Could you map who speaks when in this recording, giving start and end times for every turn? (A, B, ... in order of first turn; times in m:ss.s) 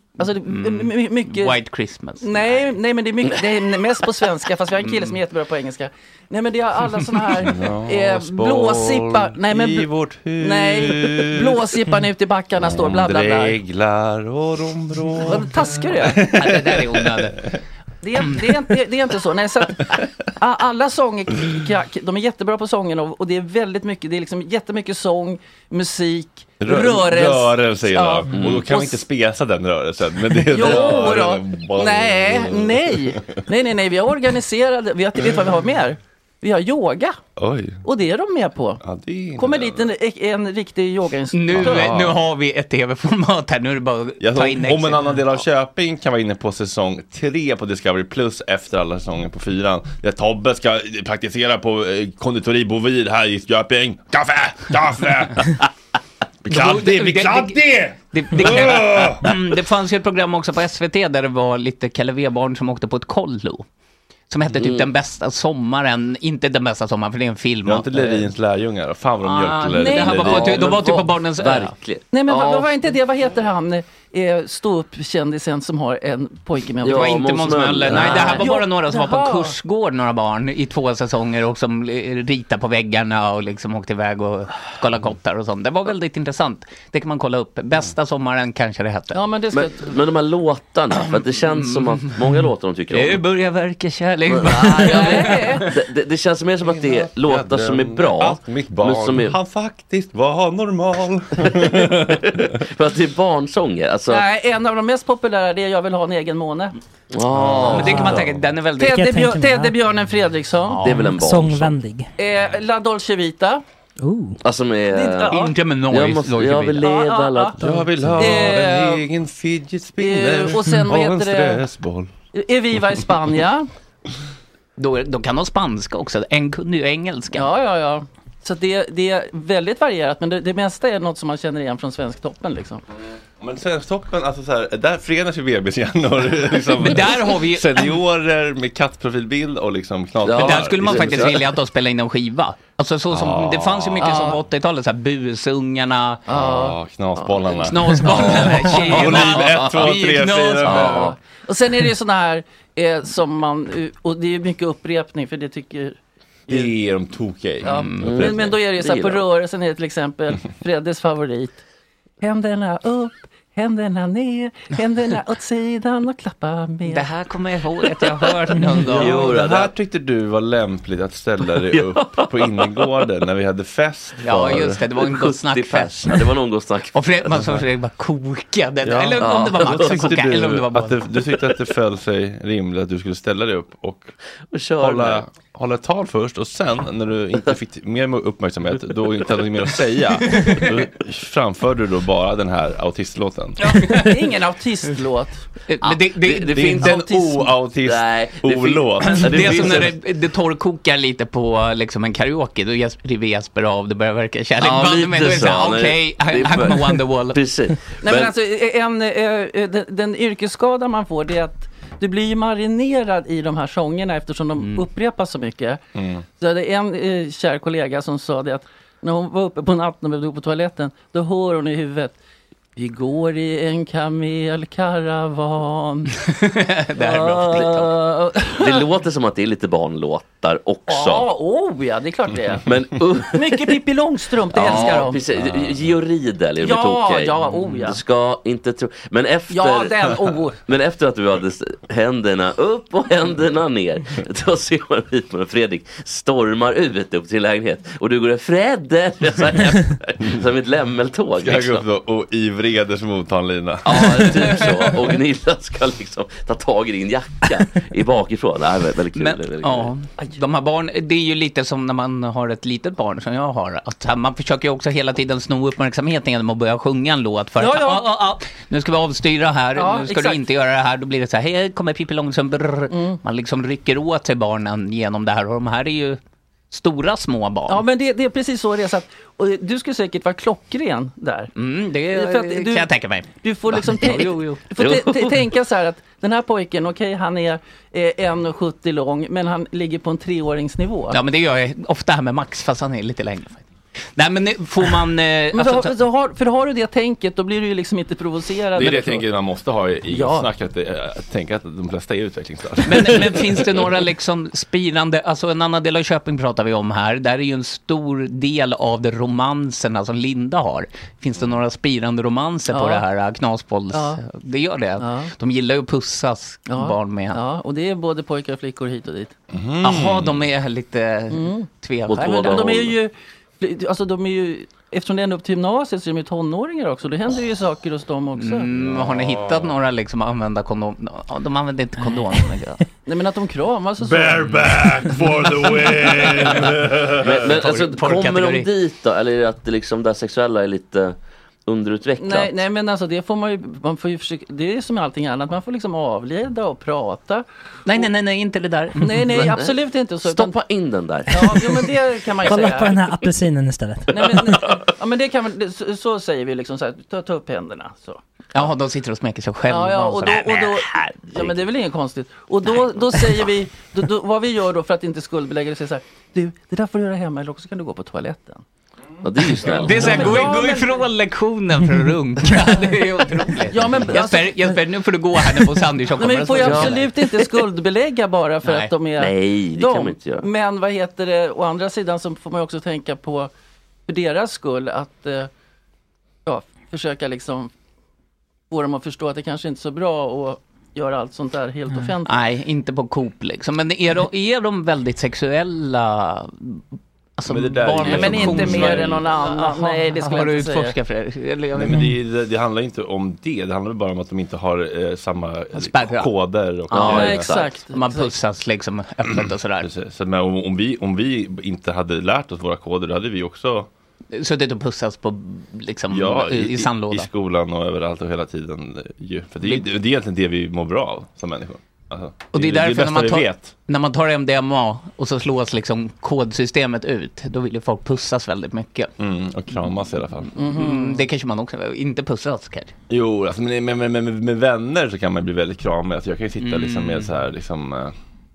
0:00.2-0:01.6 A
0:00.3-0:02.7 B
0:02.2-0:13.6 A
0:04.8-0:05.2 B
0:07.4-0:11.6 C
0:12.6-0:17.6 C
0:15.2-0:16.3 A
0:16.2-0:17.4 B
0:18.0-0:29.0 A
0:26.6-0:33.4 C
0:30.4-0:37.2 A
0:37.4-0:37.8 C
0:37.8-0:38.8 A
0:38.8-0:39.9 C
0:39.4-0:42.0 A
0:41.3-0:45.2 B
0:41.5-0:42.2 C
0:44.2-0:55.7 C
0:56.4-0:59.4 C
0:56.5-1:03.6 B
1:04.3-1:08.3 B
1:04.6-1:04.9 D
1:07.6-1:10.7 C
1:09.2-1:11.7 B
1:09.7-1:10.6 A
1:10.2-1:12.8 D
1:12.1-1:17.2 A
1:16.8-1:18.5 D
1:16.9-1:29.2 B
1:17.9-1:19.6 A
1:29.1-1:30.0 A
1:29.5-1:33.2 D
1:31.0-1:35.7 B
1:34.3-1:39.4 D
1:34.8-1:35.7 A
1:36.6-1:42.2 C
1:41.4-1:44.2 D
1:44.1-1:46.8 A
1:47.1-1:48.3 D
1:47.3-1:48.2 C
1:47.6-1:49.3 B
1:47.8-1:48.2 E
1:48.8-1:50.9 A
1:48.9-1:49.8 E
1:50.7-1:51.2 B
1:50.8-1:51.8 D
1:51.0-1:52.1 E
1:52.2-1:53.6 A
1:54.0-1:54.4 E
1:54.4-1:55.4 D
1:54.9-1:55.5 A
1:55.3-1:56.9 B
1:55.9-1:57.6 D
1:56.8-1:57.6 A
1:57.6-2:02.1 C
1:57.6-1:58.1 E
1:58.2-1:59.0 A
2:00.0-2:01.6 A
2:02.3-2:03.7 A
2:04.8-2:07.5 B
2:07.3-2:12.8 A
2:13.4-2:21.4 C
2:16.8-2:18.0 B
2:20.2-2:21.4 D
2:20.3-2:26.2 B
2:23.1-2:24.1 C
2:24.0-2:24.4 A
2:26.3-2:31.1 C
2:26.3-2:26.8 A
2:27.6-2:31.1 B
2:28.7-2:30.0 D
2:30.6-2:31.1 D
2:31.0-2:36.0 A
2:36.5-2:36.7 A
2:36.5-2:38.5 C
2:37.6-2:41.6 A
2:37.6-2:38.1 B
2:38.0-2:39.2 D
2:42.2-2:47.1 A
2:46.9-2:49.4 B
2:48.5-2:49.7 D
2:48.9-2:54.8 C
2:51.5-2:53.0 D
2:54.2-2:56.3 B
2:54.4-2:57.6 D
2:56.9-3:01.0 B
2:58.8-3:04.1 C
2:59.2-3:00.3 D
3:04.5-3:05.2 D
3:04.8-3:14.1 C
3:10.3-3:10.7 B
3:13.6-3:14.2 B
3:13.9-3:15.4 A
3:15.7-3:17.3 B
3:15.8-3:17.0 D
3:16.5-3:19.9 C
3:17.8-3:19.9 D
3:19.0-3:27.4 B
3:24.6-3:28.3 D
3:28.0-3:35.8 A
3:34.6-3:34.8 B
3:36.0-3:36.2 C
3:36.4-3:42.2 A
3:42.8-3:46.2 A
3:46.3-3:47.9 B
3:47.0-3:48.8 A
3:48.6-3:51.3 D
3:50.9-3:52.6 A
3:52.6-3:53.8 D
3:53.3-3:55.2 A
3:54.5-4:00.1 D
3:55.4-3:55.7 C
3:56.6-3:58.0 A
3:59.5-4:00.6 A
4:00.7-4:11.8 D
4:11.4-4:14.6 C
4:13.8-4:19.9 D
4:14.2-4:14.8 B
4:19.2-4:36.2 B
4:27.6-4:28.2 A
4:29.8-4:30.4 A
4:32.9-4:33.2 A
4:36.7-4:37.8 B
4:37.7-4:41.5 A
4:41.6-4:44.6 B
4:42.1-4:42.9 A
4:43.4-4:51.2 A
4:44.8-4:45.4 D
4:51.1-4:56.0 B
4:55.5-4:59.3 A
4:58.8-5:03.8 C
5:00.1-5:00.5 A
5:02.8-5:17.4 B
5:12.7-5:13.0 A
5:13.9-5:14.2 A
5:15.0-5:15.3 A
5:16.7-5:19.3 A
5:19.5-5:20.4 C
5:19.8-5:22.7 B
5:21.3-5:21.7 A
5:22.1-5:23.0 D
5:22.2-5:28.7 A
5:28.4-5:32.8 B
5:28.8-5:29.7 C
5:33.1-5:35.0 A
5:34.0-5:37.4 C
5:37.2-5:42.6 D
5:37.4-5:38.7 B
5:42.2-5:47.4 A
5:47.9-5:49.6 B
5:49.0-5:50.6 A
5:49.4-5:51.9 D
5:51.3-5:53.0 A
5:52.4-5:54.4 E
5:54.1-5:58.2 A
5:58.5-6:01.1 B
5:59.7-6:08.6 A
6:09.2-6:10.6 D
6:09.6-6:17.5 B
6:09.7-6:11.0 A
6:13.7-6:14.8 A
6:16.2-6:23.5 A
6:16.6-6:17.0 D
6:18.6-6:18.9 B
6:19.2-6:20.5 D
6:24.1-6:25.5 A
6:26.5-6:27.7 A
6:28.7-6:32.4 A
6:32.3-6:36.8 B
6:37.4-6:42.0 B
6:37.5-6:39.2 C
6:38.0-6:40.9 A
6:41.8-6:47.5 C
6:45.8-6:46.3 B
6:46.9-6:47.4 B
6:46.9-6:47.7 D
6:47.0-6:48.3 A
6:47.9-6:49.9 B
6:49.8-6:53.9 C
6:54.3-6:57.3 B
6:56.1-7:03.7 C
7:02.5-7:09.1 B
7:09.2-7:10.5 C
7:10.6-7:11.2 A
7:10.6-7:13.0 B
7:13.1-7:18.1 C
7:16.6-7:17.3 B